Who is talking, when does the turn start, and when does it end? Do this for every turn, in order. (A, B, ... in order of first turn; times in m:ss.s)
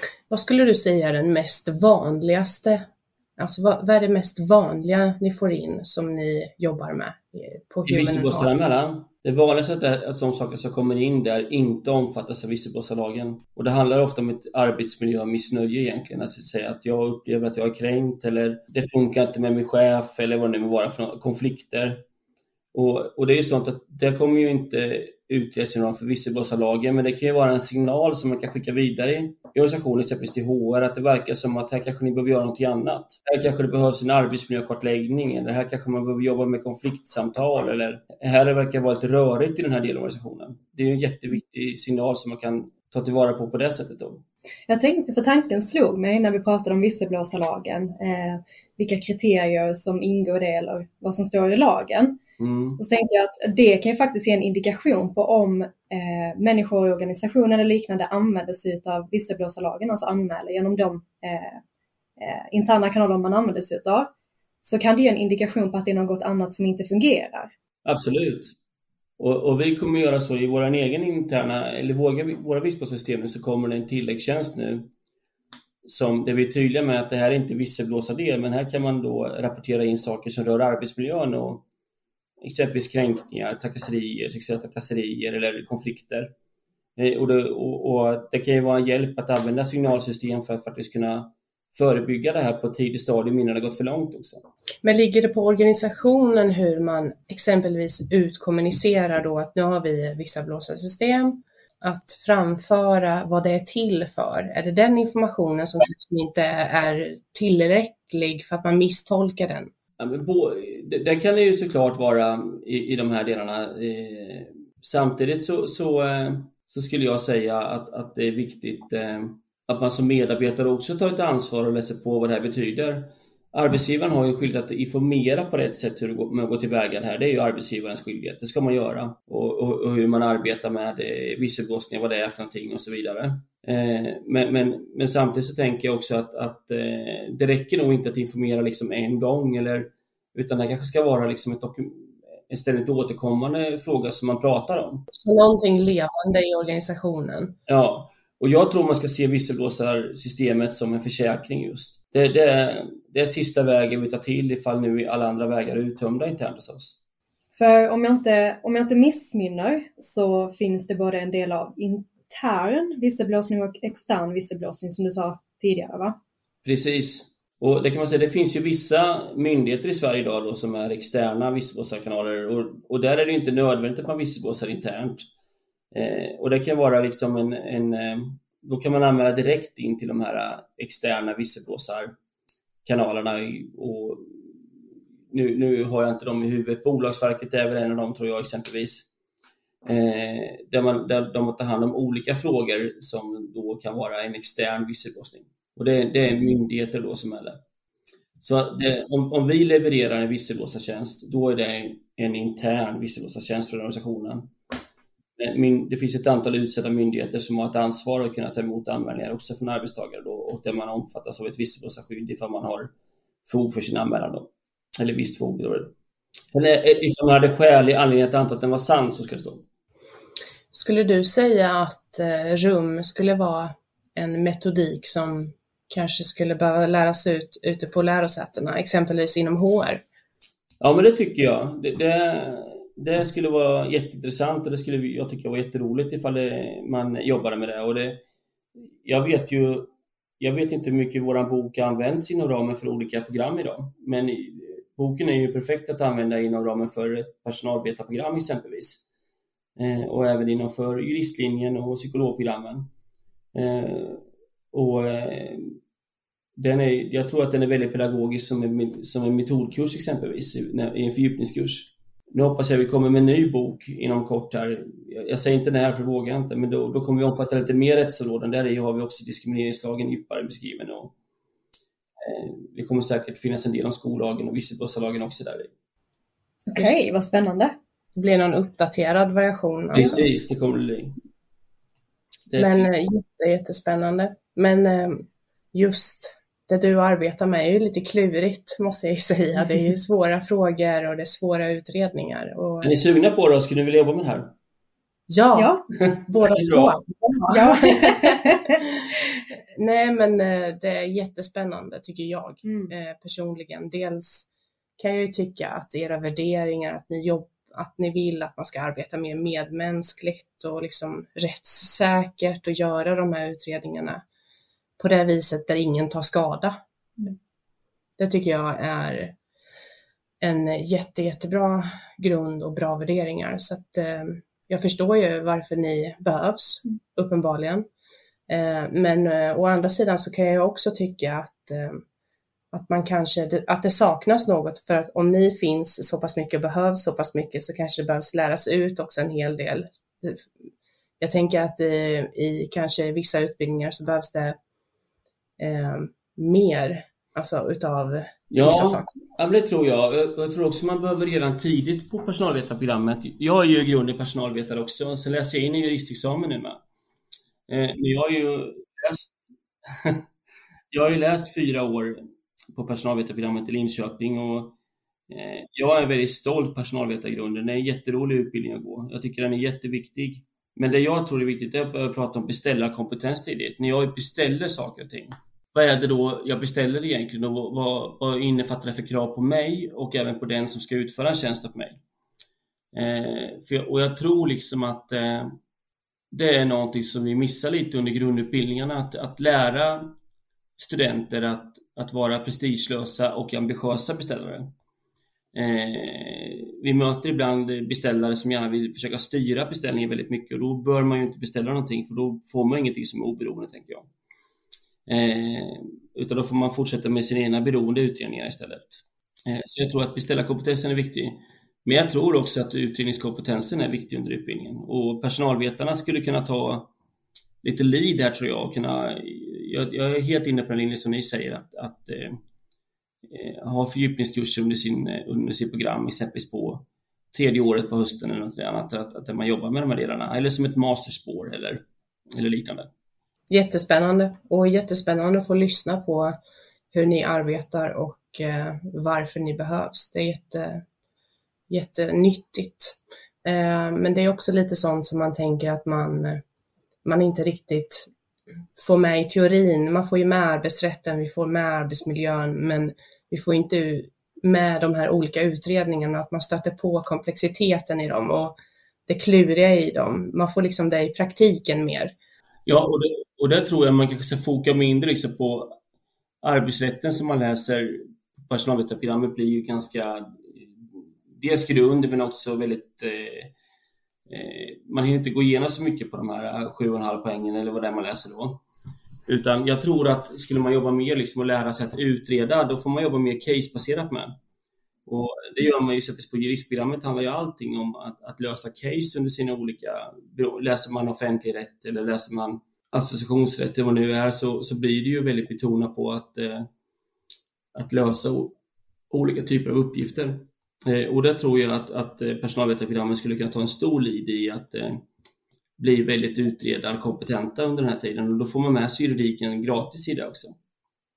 0:00.3-0:02.9 A
0:03.4-0:08.5 A
0:07.9-0:22.0 B
0:22.7-0:44.2 B
0:44.7-0:52.2 C
0:52.4-0:52.8 B
0:52.8-1:01.6 C
1:02.2-1:04.1 C
1:04.6-1:07.5 C
1:07.8-1:08.5 B
1:09.2-1:14.9 B
1:15.8-1:21.6 B
1:22.4-1:26.3 B
1:27.0-1:34.4 B
1:34.8-1:49.7 A
1:50.0-2:25.0 B
2:25.1-2:27.5 A
2:27.7-2:37.0 B
2:37.6-2:46.2 C
2:46.6-2:55.2 B
2:55.9-3:02.1 B
3:02.8-3:04.6 B
3:05.3-3:09.1 B
3:09.8-3:17.6 B
3:18.4-3:24.5 B
3:25.4-3:32.9 B
3:33.5-3:35.9 B
3:36.5-3:39.6 B
3:40.7-3:50.0 A
3:50.8-3:58.2 B
3:59.0-4:09.0 B
4:09.8-4:12.9 B
4:13.5-4:15.8 B
4:16.6-4:31.1 B
4:32.2-4:35.7 B
4:36.7-4:37.7 C
4:36.8-4:37.0 A
4:38.2-4:40.2 A
4:39.9-4:41.2 B
4:42.5-4:42.9 B
4:42.6-4:52.9 A
4:52.8-4:54.5 B
4:55.3-4:55.7 A
4:55.5-4:55.8 C
4:56.0-4:57.0 B
4:56.3-4:59.1 A
4:57.5-4:58.8 C
4:59.8-5:14.2 A
5:02.6-5:02.9 C
5:15.0-5:16.8 A
5:18.2-5:19.4 A
5:20.4-5:27.9 A
5:28.5-5:32.0 A
5:32.7-5:40.5 A
5:41.2-5:44.6 A
5:45.6-5:49.2 A
5:48.5-5:56.8 B
5:57.7-6:00.2 B
6:00.9-6:02.2 B
6:02.7-6:04.8 B
6:05.3-6:22.0 B
6:22.9-6:25.6 B
6:26.3-6:30.2 B
6:30.8-6:34.7 B
6:35.5-6:44.1 B
6:45.1-6:56.9 B
6:57.6-7:02.4 B
7:03.3-7:11.8 B
7:12.3-7:12.9 B
7:13.5-7:16.4 A
7:16.9-7:20.8 A
7:21.7-7:26.4 A
7:27.0-7:28.1 A
7:28.8-7:38.6 A
7:39.1-7:42.1 A
7:42.7-7:45.8 B
7:46.4-7:53.5 B
7:54.3-7:58.6 B
7:59.3-8:04.4 B
8:05.1-8:16.7 B
8:17.7-8:18.6 B
8:19.1-8:25.0 B
8:25.8-8:30.6 B